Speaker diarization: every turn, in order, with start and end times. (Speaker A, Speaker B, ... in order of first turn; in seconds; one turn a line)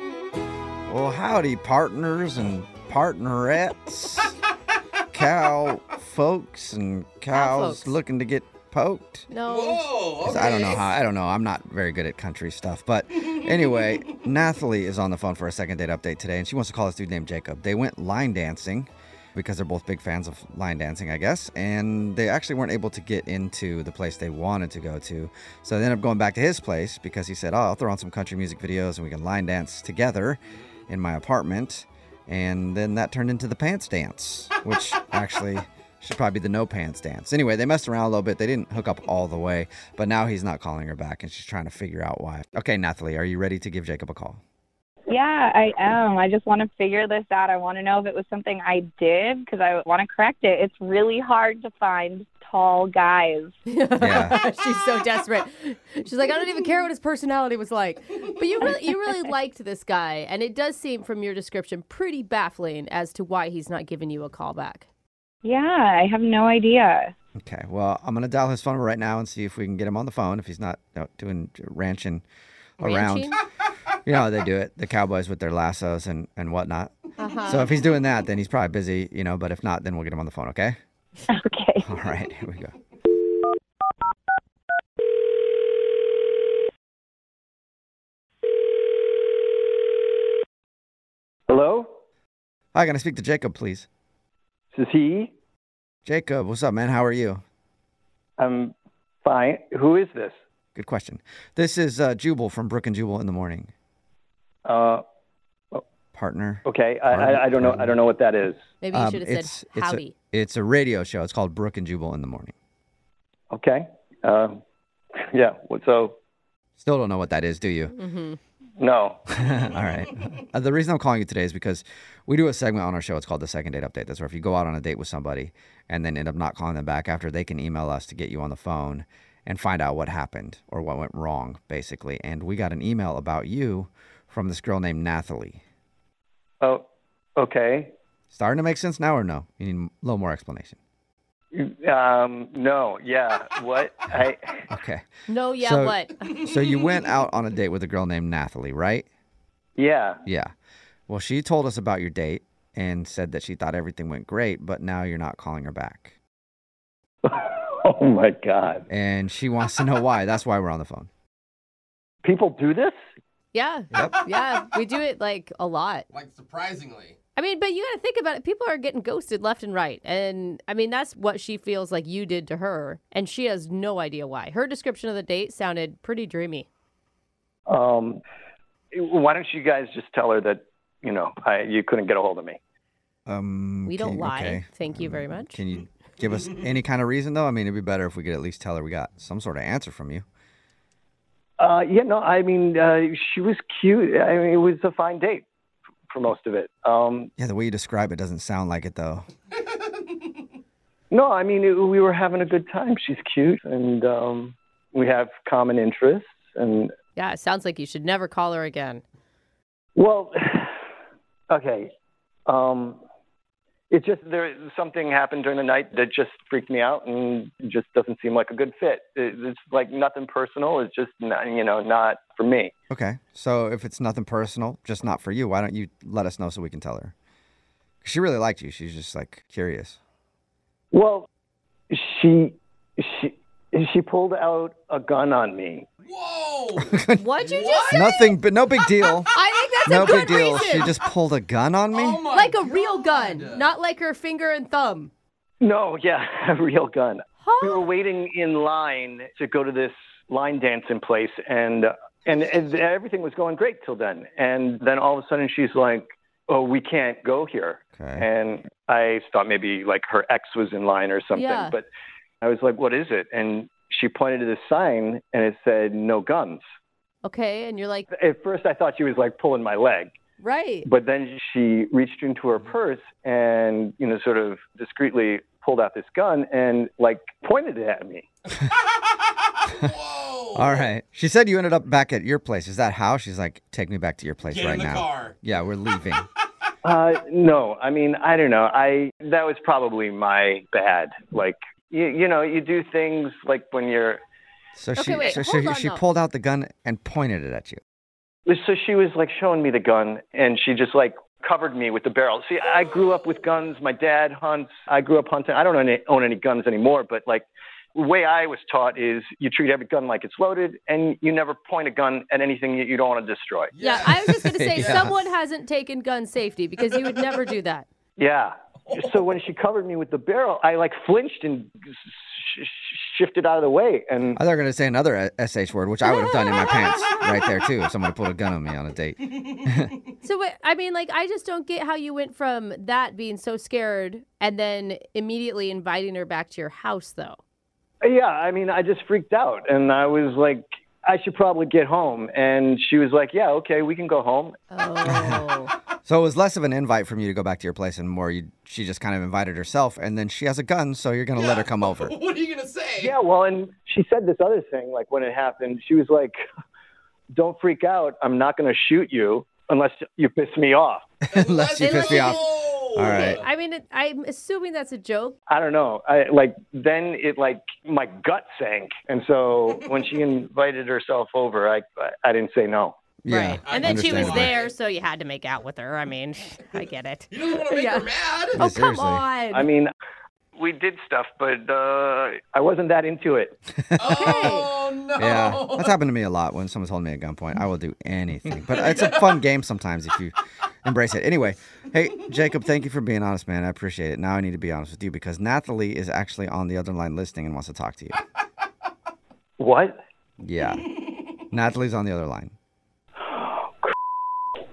Speaker A: 0.9-4.4
Speaker A: 5.1-9.3
Speaker B: 7.3-8.0
Speaker B: 9.3-9.9
Speaker C: 9.5-10.9
Speaker A: 10.2-44.4
Speaker D: 45.1-53.5
Speaker B: 53.7-64.9
Speaker A: 54.0-54.4
Speaker D: 65.4-67.1
Speaker A: 67.4-72.2
Speaker A: 72.8-73.3
Speaker B: 72.8-73.4
Speaker A: 74.0-80.8
Speaker B: 77.2-77.8
Speaker D: 81.3-81.9
Speaker A: 81.8-82.7
Speaker E: 91.5-91.9
Speaker A: 92.7-93.9
Speaker E: 94.7-95.3
Speaker A: 96.1-97.4
Speaker E: 98.4-100.4
Speaker A: 100.8-103.7
Speaker E: 104.7-105.0
Speaker A: 106.1-107.9
Speaker E: 106.7-108.6
Speaker B: 108.8-110.2
Speaker A: 108.9-112.5
Speaker E: 113.5-114.6
Speaker E: 115.3-116.2
Speaker A: 116.8-118.0
Speaker B: 117.9-118.4
Speaker E: 118.8-119.3
Speaker A: 119.4-135.6
Speaker E: 137.4-137.9
Speaker A: 138.3-140.8
Speaker E: 141.5-144.7
Speaker A: 144.7-145.1
Speaker B: 145.3-146.2
Speaker A: 145.6-149.1
Speaker E: 149.8-150.2
Speaker A: 150.3-150.5
Speaker A: 151.1-156.2
Speaker E: 157.2-158.8
Speaker A: 158.9-161.1
Speaker E: 162.2-162.9
Speaker B: 163.5-166.1
Speaker A: 163.9-164.2
Speaker C: 166.1-167.2
Speaker B: 167.4-176.7
Speaker E: 177.7-178.2
Speaker E: 178.9-182.6
Speaker A: 183.3-190.2
Speaker B: 183.9-185.6
Speaker E: 191.6-195.5
Speaker E: 196.1-197.3
Speaker A: 197.4-199.3
Speaker E: 201.1-206.9
Speaker B: 207.2-209.0
Speaker E: 210.0-210.7
Speaker E: 211.5-211.9
Speaker E: 212.5-213.0
Speaker E: 213.9-222.7
Speaker A: 222.9-227.1
Speaker A: 228.0-230.0
Speaker E: 230.9-231.3
Speaker E: 231.9-235.9
Speaker C: 236.0-238.1
Speaker A: 236.9-237.2
Speaker B: 237.2-238.3
Speaker A: 237.9-239.3
Speaker B: 239.3-240.9
Speaker A: 239.8-242.3
Speaker C: 241.9-243.7
Speaker B: 242.3-245.1
Speaker E: 245.6-261.9
Speaker B: 247.4-247.8
Speaker A: 258.0-258.3
Speaker B: 261.4-261.8
Speaker E: 262.4-266.6
Speaker B: 267.2-268.1
Speaker E: 268.1-270.1
Speaker B: 270.4-270.9
Speaker E: 270.9-278.3
Speaker C: 279.6-280.9
Speaker A: 280.6-286.3
Speaker C: 284.5-285.4
Speaker E: 286.8-294.2
Speaker A: 294.8-297.8
Speaker B: 295.0-296.0
Speaker E: 298.5-313.7
Speaker C: 313.8-314.1
Speaker B: 313.8-317.9
Speaker A: 314.1-315.1
Speaker C: 314.8-315.1
Speaker E: 318.2-324.4
Speaker A: 324.4-329.9
Speaker B: 326.3-326.7
Speaker B: 330.2-337.4
Speaker E: 338.0-344.6
Speaker B: 344.7-345.7
Speaker A: 346.1-352.1
Speaker C: 351.4-353.1
Speaker E: 353.0-356.4
Speaker E: 357.4-361.1
Speaker A: 361.3-363.4
Speaker C: 361.3-363.5
Speaker B: 361.8-365.4
Speaker E: 365.5-373.0
Speaker A: 373.2-374.6
Speaker B: 373.3-379.7
Speaker C: 373.6-374.7
Speaker C: 377.3-378.6
Speaker A: 378.5-379.2
Speaker E: 379.5-379.9
Speaker E: 380.6-383.6
Speaker A: 383.9-384.6
Speaker C: 384.0-385.9
Speaker B: 384.2-384.7
Speaker A: 385.1-398.2
Speaker C: 388.7-389.3
Speaker E: 399.6-400.0
Speaker A: 400.4-400.9
Speaker A: 401.5-402.6
Speaker E: 403.2-403.9